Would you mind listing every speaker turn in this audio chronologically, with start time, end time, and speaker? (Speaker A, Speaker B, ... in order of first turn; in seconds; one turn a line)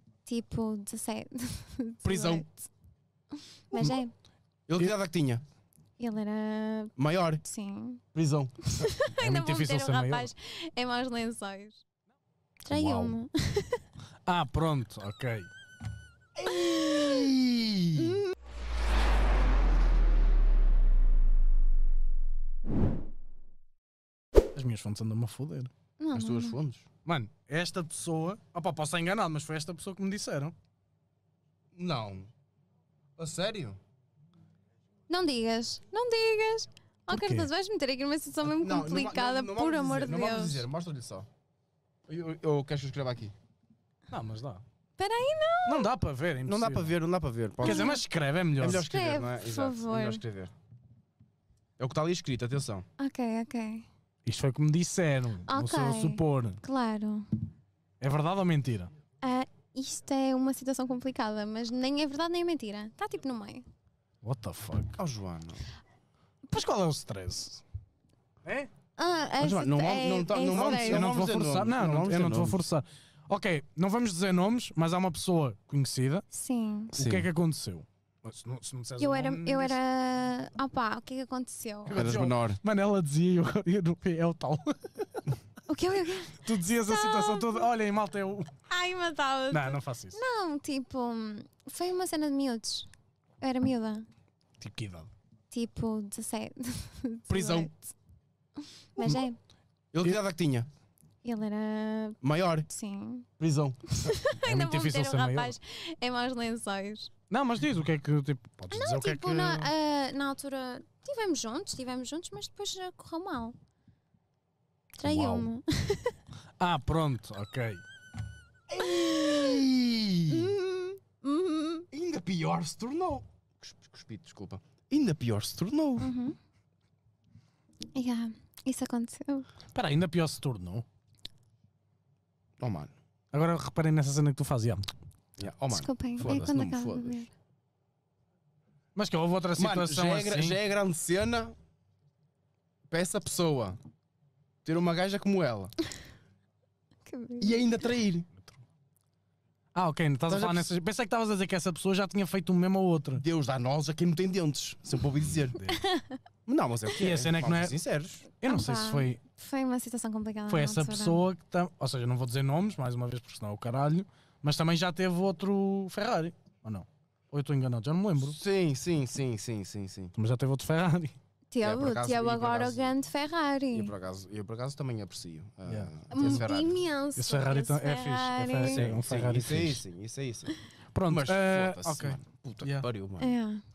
Speaker A: 0.2-2.6
Speaker B: 2.0-2.5
Speaker A: 3.7-4.1
Speaker B: 3.7-4.0
Speaker B: 4.7-5.4
Speaker A: 6.0-8.0
Speaker B: 7.0-7.4
Speaker B: 8.1-8.8
Speaker A: 8.6-11.8
Speaker C: 9.2-10.3
Speaker A: 12.6-13.8
Speaker C: 12.7-13.2
Speaker C: 14.2-15.5
Speaker B: 16.4-18.2
Speaker C: 24.5-25.7
Speaker A: 26.0-26.6
Speaker B: 26.1-26.9
Speaker C: 27.0-30.5
Speaker B: 31.7-32.3
Speaker B: 33.2-33.8
Speaker A: 35.1-40.6
Speaker C: 37.1-37.5
Speaker B: 38.4-41.3
Speaker B: 42.1-43.3
Speaker C: 44.1-44.6
Speaker A: 45.0-45.9
Speaker C: 45.6-46.9
Speaker B: 46.5-48.0
Speaker C: 47.6-48.9
Speaker A: 47.6-48.0
Speaker B: 48.6-50.5
Speaker A: 48.8-50.2
Speaker B: 51.8-52.8
Speaker A: 53.0-53.9
Speaker C: 54.2-56.6
Speaker A: 55.5-57.3
Speaker C: 58.0-58.9
Speaker A: 59.2-63.6
Speaker C: 64.2-65.0
Speaker B: 65.0-65.7
Speaker C: 66.5-67.6
Speaker C: 68.4-68.7
Speaker A: 69.0-71.1
Speaker B: 69.4-72.6
Speaker C: 70.5-76.2
Speaker A: 76.3-76.9
Speaker C: 76.9-79.8
Speaker B: 77.0-77.3
Speaker A: 79.0-82.0
Speaker C: 81.9-85.3
Speaker B: 81.9-82.6
Speaker A: 85.7-87.7
Speaker C: 86.4-88.5
Speaker A: 88.7-92.9
Speaker C: 89.5-90.2
Speaker A: 93.4-94.0
Speaker C: 94.6-95.1
Speaker A: 95.5-97.9
Speaker B: 97.3-97.7
Speaker A: 98.9-99.4
Speaker B: 99.9-100.7
Speaker A: 101.2-103.3
Speaker B: 102.2-102.7
Speaker B: 103.4-103.8
Speaker A: 103.9-107.1
Speaker C: 104.4-105.5
Speaker C: 107.3-109.7
Speaker A: 108.7-113.5
Speaker A: 115.0-116.2
Speaker C: 115.0-115.5
Speaker C: 116.6-117.8
Speaker B: 118.7-120.5
Speaker A: 120.3-121.9
Speaker B: 121.9-126.1
Speaker A: 126.0-126.3
Speaker A: 127.9-129.5
Speaker C: 129.7-130.8
Speaker B: 132.6-132.9
Speaker C: 133.3-134.8
Speaker B: 135.4-137.2
Speaker A: 135.7-137.3
Speaker C: 138.9-140.6
Speaker B: 139.5-141.5
Speaker B: 142.9-143.8
Speaker B: 144.6-145.7
Speaker A: 147.1-147.6
Speaker B: 147.4-148.3
Speaker C: 149.7-153.2
Speaker B: 150.3-150.7
Speaker B: 153.2-155.6
Speaker C: 155.5-155.8
Speaker A: 155.8-156.2
Speaker B: 156.4-158.2
Speaker C: 156.9-157.8
Speaker C: 158.3-159.2
Speaker A: 158.4-161.2
Speaker C: 160.5-168.4
Speaker B: 168.2-170.1
Speaker C: 170.1-171.1
Speaker A: 171.5-173.9
Speaker B: 171.6-172.9
Speaker B: 173.7-176.8
Speaker C: 175.7-176.4
Speaker A: 176.1-178.8
Speaker C: 177.2-179.8
Speaker B: 178.6-180.5
Speaker C: 180.9-182.8
Speaker B: 181.1-183.3
Speaker A: 183.2-183.6